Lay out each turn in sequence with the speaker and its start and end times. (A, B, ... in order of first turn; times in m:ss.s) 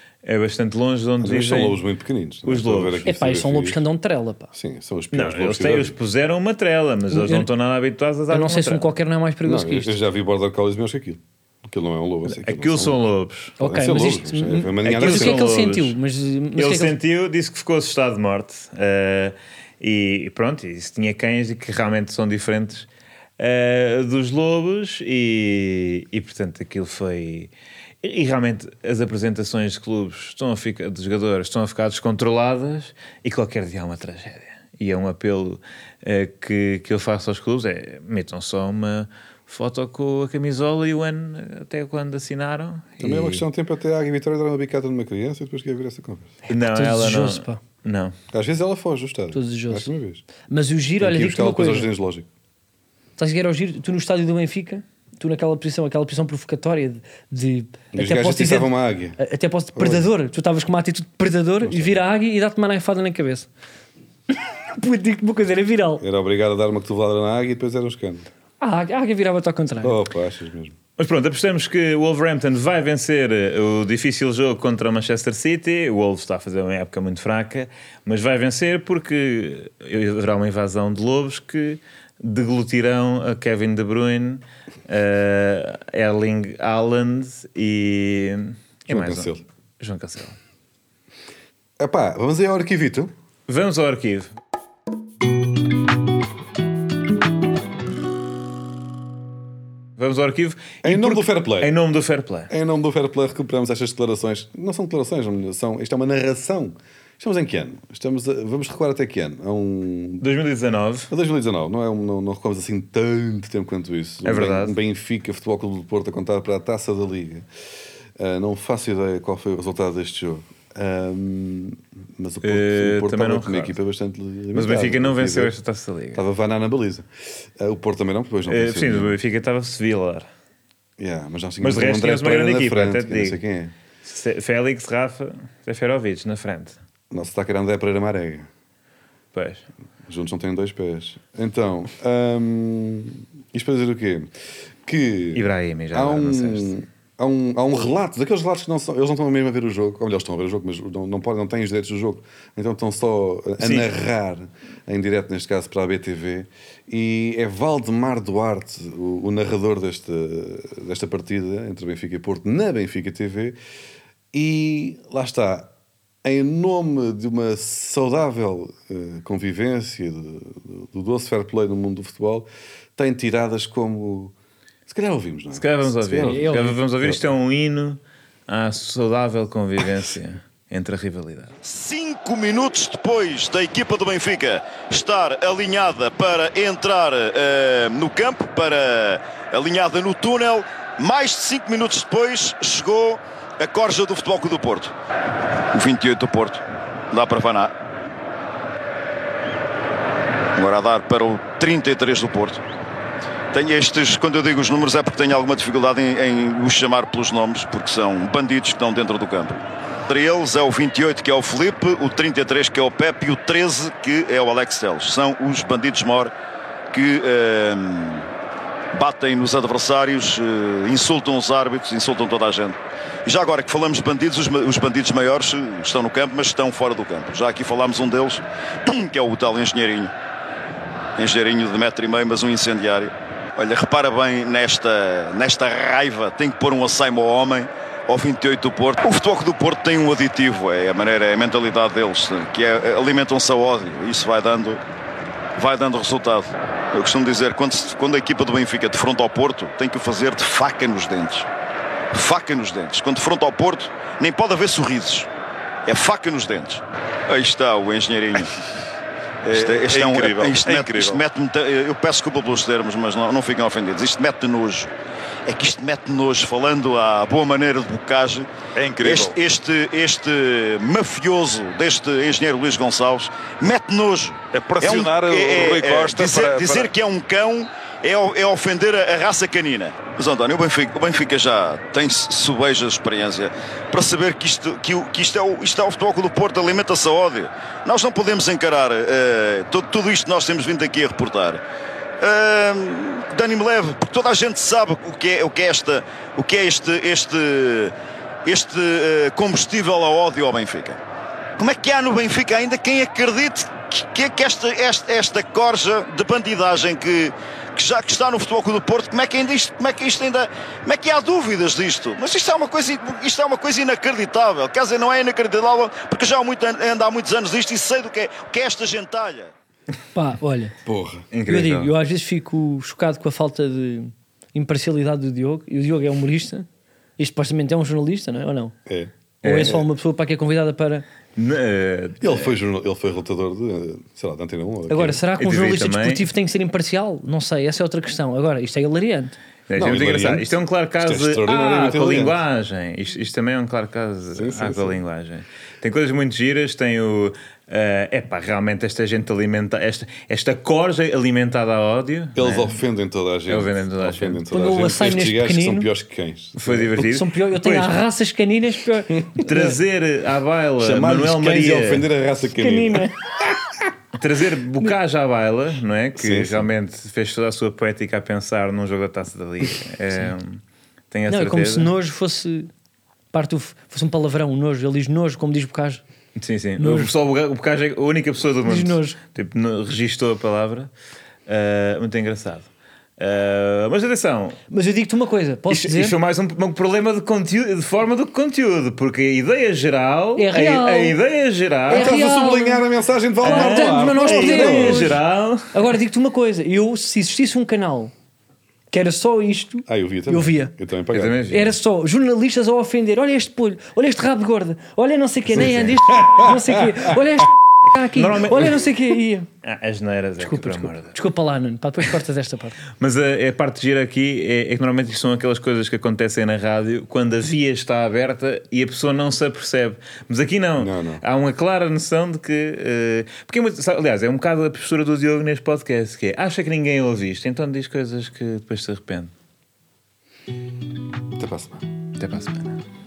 0:00.2-0:01.8 A
0:01.2-0:03.8 B
0:02.4-0:03.1 A
0:03.1-0:04.5 C
0:04.5-0:06.0 B
0:05.1-0:08.9 A
0:07.1-0:07.5 C
0:08.3-0:10.0 C
0:09.4-0:13.0 B
0:12.3-0:13.6 A
0:13.6-0:16.9 C
0:13.6-0:15.5 B
0:14.8-0:16.0 A
0:16.6-0:22.9 A
0:23.4-0:27.5 A
0:28.0-0:43.4 A
0:43.0-0:46.4 B
0:46.5-0:48.2 A
0:46.6-0:47.6 C
0:48.3-0:50.2 B
0:49.3-0:49.9 C
0:50.5-0:51.9 C
0:51.0-0:52.3 B
0:53.2-1:03.5 C
0:57.9-0:59.2 B
0:59.8-1:00.1 B
1:01.6-1:02.0 B
1:04.3-1:06.0 C
1:06.0-1:08.3 B
1:08.6-1:10.0 C
1:09.8-1:10.7 B
1:11.0-1:30.4 A
1:28.9-1:29.4 B
1:31.8-1:33.1 B
1:33.5-1:34.3 A
1:40.0-1:42.5 A
1:40.8-1:41.7 B
1:42.5-1:50.2 B
1:50.2-1:51.1 A
1:51.1-1:57.5 B
1:54.2-1:54.8 A
1:58.2-2:05.6 B
2:02.4-2:03.8 A
2:04.5-2:06.2 A
2:06.2-2:09.2 B
2:08.5-2:10.3 A
2:11.0-2:13.7 B
2:11.6-2:13.4 A
2:14.0-2:16.8 A
2:17.1-2:18.5 B
2:19.3-2:19.6 A
2:20.1-2:24.3 B
2:24.8-2:43.6 B
2:25.4-2:26.7 A
2:33.6-2:33.9 A
2:44.3-2:45.7 B
2:46.2-2:54.3 B
2:54.9-2:57.2 B
2:55.5-3:01.5 A
2:56.2-2:56.8 C
3:01.6-3:14.9 D
3:15.7-3:17.7 D
3:20.6-3:22.6 D
3:23.5-3:36.3 D
3:36.9-3:38.3 D
3:38.9-3:50.1 D
3:51.2-4:04.8 D
4:05.6-4:11.5 D
4:12.1-4:15.3 D
4:15.9-4:18.6 D
4:19.5-4:24.9 D
4:19.5-4:21.2 E
4:25.5-4:28.5 D
4:28.8-4:29.4 E
4:29.0-4:51.6 D
4:34.5-4:36.9 E
4:52.2-4:57.9 D
4:58.4-5:01.0 D
5:01.6-5:19.5 D
5:20.1-5:20.8 C
5:20.8-5:21.2 B
5:21.3-5:21.9 A
5:21.5-5:26.7 C
5:27.2-5:28.7 C
5:29.4-5:29.8 A
5:29.4-5:31.0 C
5:31.4-5:32.5 A
5:32.2-5:35.2 B
5:34.9-5:39.4 C
5:35.4-5:36.3 A
5:39.7-5:52.8 A
5:39.8-5:42.4 B
5:44.3-5:45.0 B
5:52.4-5:57.1 B
5:53.5-5:54.4 A
5:54.5-5:55.9 C
5:56.6-5:58.0 A
5:57.0-5:59.8 C
5:59.4-6:02.1 A
6:00.8-6:03.5 B
6:02.6-6:03.2 C
6:04.2-6:11.9 A
6:06.2-6:06.7 B
6:11.3-6:12.7 C
6:13.3-6:16.0 C
6:16.4-6:20.9 A
6:16.8-6:17.1 C
6:18.6-6:19.2 C
6:21.5-6:24.6 A
6:24.7-6:26.2 C
6:25.7-6:32.1 A
6:30.4-6:31.2 C
6:31.9-6:35.2 B
6:31.9-6:32.8 C
6:33.4-6:35.2 C
6:33.4-6:35.7 A
6:35.7-6:38.1 C
6:38.9-6:40.7 C
6:39.9-6:41.5 B
6:41.1-6:41.8 A
6:41.5-6:49.5 C
6:45.6-6:45.8 A
6:45.6-6:47.2 B
6:48.1-6:48.9 A
6:49.6-6:51.2 A
6:50.4-6:52.8 C
6:53.0-7:09.3 A
7:00.8-7:01.2 B
7:11.4-7:11.8 B
7:12.2-7:12.8 A